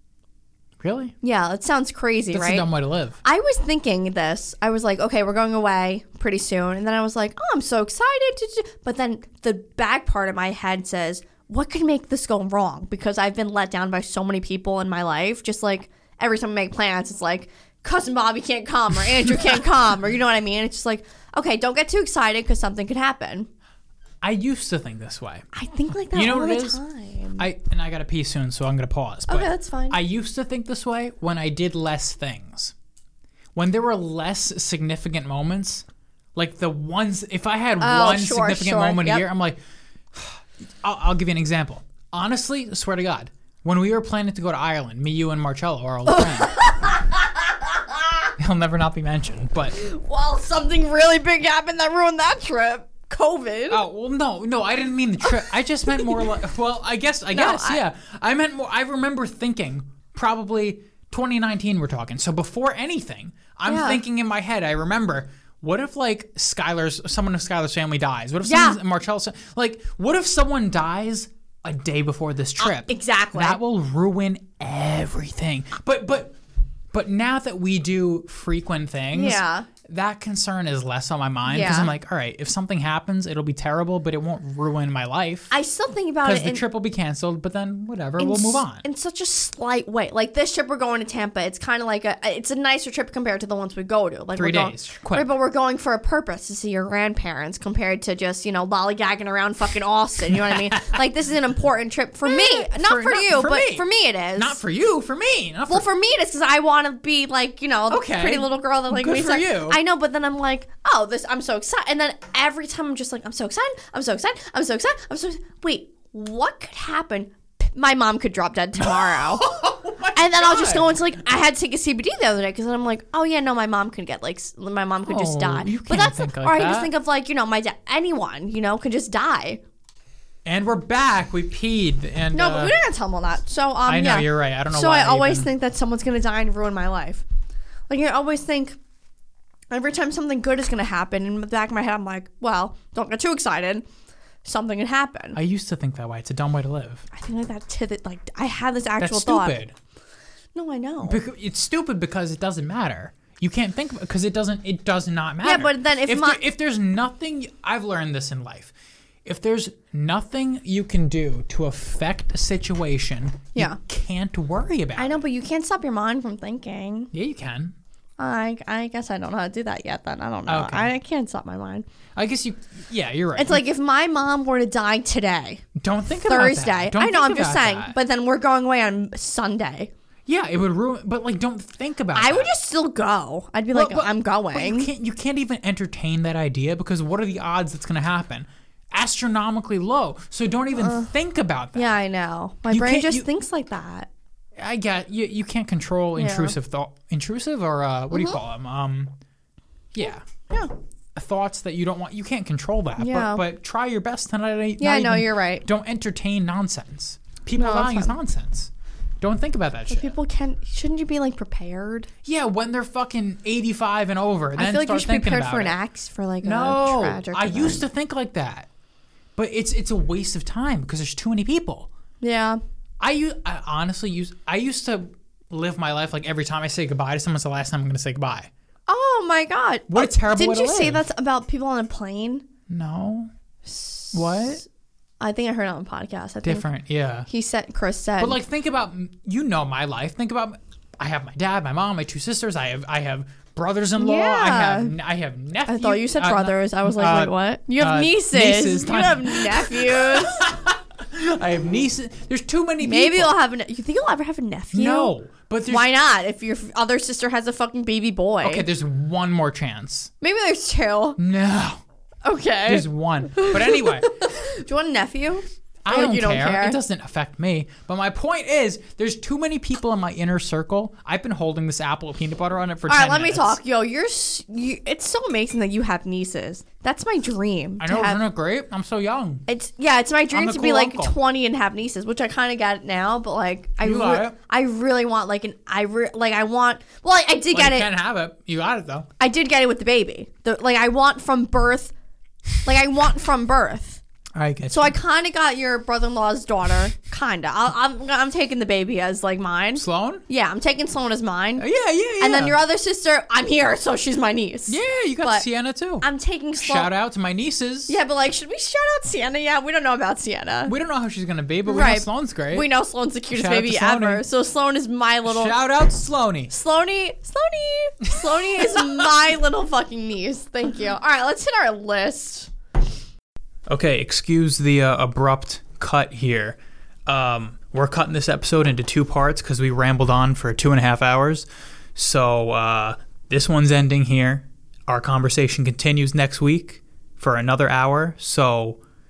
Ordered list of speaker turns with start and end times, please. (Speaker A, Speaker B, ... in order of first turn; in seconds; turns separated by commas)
Speaker A: 0.8-1.1, Speaker B: 1.2-2.7, Speaker A: 2.3-3.2, Speaker B: 3.2-23.5, Speaker A: 24.2-25.5, Speaker B: 25.5-27.4, Speaker A: 26.1-26.8, Speaker A: 27.4-32.7, Speaker B: 29.3-30.0, Speaker A: 33.5-39.6, Speaker B: 37.8-39.2, Speaker A: 40.1-46.6, Speaker B: 46.0-48.1, Speaker A: 48.4-49.8, Speaker B: 49.7-53.8, Speaker A: 53.7-76.3, Speaker B: 55.9-56.2, Speaker B: 57.3-57.8, Speaker B: 63.6-64.0, Speaker B: 68.4-68.8, Speaker B: 72.6-73.6, Speaker A: 76.9-85.5, Speaker B: 79.1-79.7, Speaker B: 81.4-81.9, Speaker B: 85.5-86.6, Speaker A: 86.2-88.8, Speaker B: 88.2-104.6, Speaker A: 94.3-95.3, Speaker A: 100.5-101.0, Speaker A: 102.2-103.8, Speaker A: 104.3-105.9, Speaker B: 105.7-119.5, Speaker A: 107.9-109.8, Speaker A: 118.8-121.2, Speaker B: 120.1-129.6, Speaker A: 125.1-126.9, Speaker A: 130.4-132.8, Speaker B: 132.3-137.2, Speaker A: 133.8-135.5, Speaker B: 137.9-138.8, Speaker B: 139.7-143.8, Speaker B: 144.4-145.4, Speaker A: 145.3-147.1, Speaker B: 147.1-149.6, Speaker A: 149.0-149.7, Speaker B: 150.5-151.2, Speaker A: 151.0-158.7, Speaker B: 155.4-156.4, Speaker A: 159.2-165.2, Speaker B: 165.0-167.1, Speaker A: 167.1-167.7, Speaker B: 168.2-171.8, Speaker A: 170.5-170.9, Speaker A: 172.2-173.7, Speaker B: 173.3-175.6, Speaker A: 175.8-177.9, Speaker B: 176.2-179.9, Speaker A: 180.2-182.5, Speaker B: 182.1-184.9, Speaker A: 183.7-192.0, Speaker B: 190.7-191.1, Speaker B: 191.7-194.1, Speaker A: 192.7-193.3, Speaker A: 194.6-199.1, Speaker B: 196.1-196.6, Speaker B: 198.1-198.4, Speaker A: 199.9-200.3, Speaker A: 201.1-210.2, Speaker B: 203.0-203.4, Speaker B: 204.8-205.7, Speaker B: 207.6-208.2, Speaker B: 209.9-212.1, Speaker A: 212.2-215.8, Speaker B: 214.5-217.8, Speaker A: 216.4-218.7, Speaker A: 219.4-221.9, Speaker B: 222.2-222.6, Speaker A: 223.0-228.5, Speaker B: 228.9-232.4, Speaker A: 229.9-231.0, Speaker A: 232.7-233.3, Speaker B: 233.6-234.6, Speaker A: 234.1-234.6, Speaker B: 235.2-236.7, Speaker A: 236.4-237.3, Speaker B: 237.3-238.4, Speaker A: 238.2-253.3, Speaker B: 244.0-244.9, Speaker B: 245.7-250.4, Speaker B: 252.8-255.1, Speaker A: 254.7-255.9, Speaker B: 255.7-258.7, Speaker A: 258.4-260.1, Speaker B: 260.2-261.2, Speaker A: 261.2-261.8, Speaker B: 262.2-266.8, Speaker A: 262.6-264.1, Speaker A: 265.8-273.6, Speaker B: 272.9-278.2, Speaker A: 277.8-279.4, Speaker B: 279.5-287.9, Speaker A: 280.3-281.1, Speaker A: 283.8-284.4, Speaker A: 287.5-289.1, Speaker B: 289.2-291.9, Speaker B: 292.6-294.0, Speaker A: 294.3-295.0, Speaker B: 294.7-305.4, Speaker A: 299.7-300.2, Speaker A: 301.6-302.6, Speaker A: 304.7-307.9, Speaker B: 306.0-306.9, Speaker B: 307.9-310.7, Speaker A: 310.6-312.7, Speaker B: 311.7-315.6, Speaker A: 313.3-314.2, Speaker A: 315.2-316.5, Speaker B: 316.5-322.5, Speaker A: 318.1-319.0, Speaker A: 323.7-338.8